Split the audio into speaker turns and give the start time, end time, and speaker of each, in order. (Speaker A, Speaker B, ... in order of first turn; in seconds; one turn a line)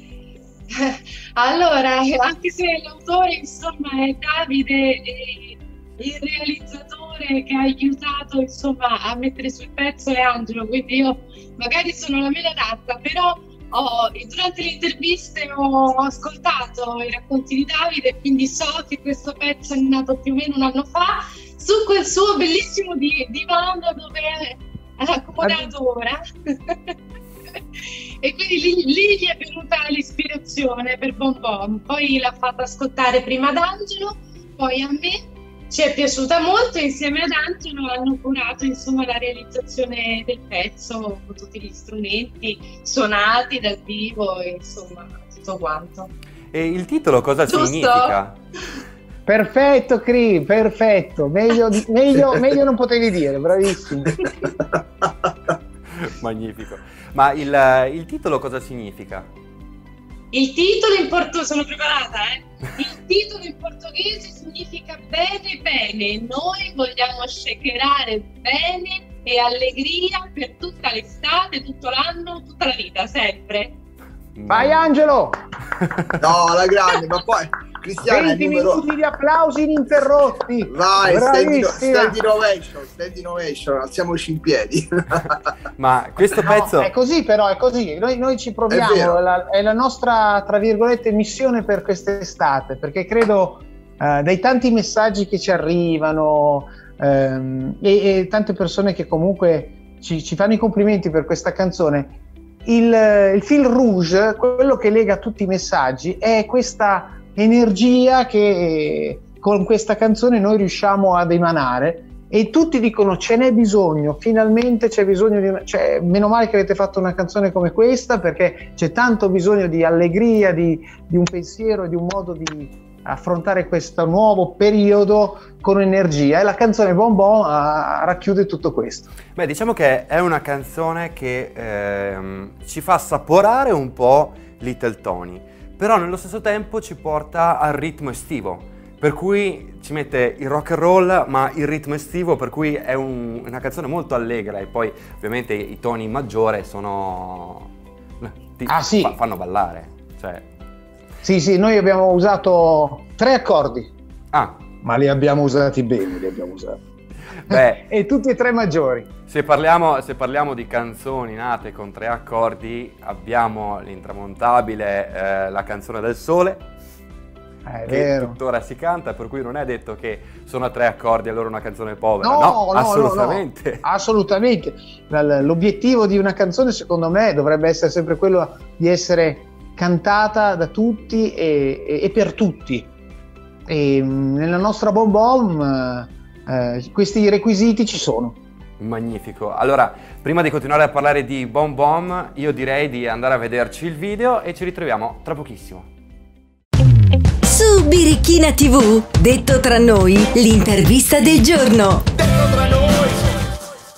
Speaker A: 0.7-26.9
Speaker B: 25.4-25.7
Speaker A: 27.8-46.1
Speaker C: 46.5-48.4
Speaker A: 47.5-48.1
Speaker B: 49.2-54.3
Speaker C: 55.9-59.3
Speaker A: 60.3-73.7
Speaker C: 74.3-74.8
Speaker B: 74.5-75.4
Speaker D: 76.2-78.8
Speaker B: 78.0-82.2
Speaker D: 80.7-85.4
Speaker C: 85.8-86.9
Speaker B: 86.4-102.1
Speaker D: 88.7-89.2
Speaker B: 102.7-129.1
Speaker C: 129.3-147.7
Speaker C: 148.2-150.4
Speaker B: 148.7-149.2
Speaker B: 151.2-153.9
Speaker C: 154.3-154.6
Speaker B: 154.8-156.8
Speaker C: 157.3-157.8
Speaker B: 157.5-159.1
Speaker C: 159.3-166.6
Speaker B: 167.7-168.4
Speaker C: 167.9-173.8
Speaker B: 172.2-182.9
Speaker B: 183.7-188.4
Speaker C: 188.8-195.9
Speaker E: 197.4-202.1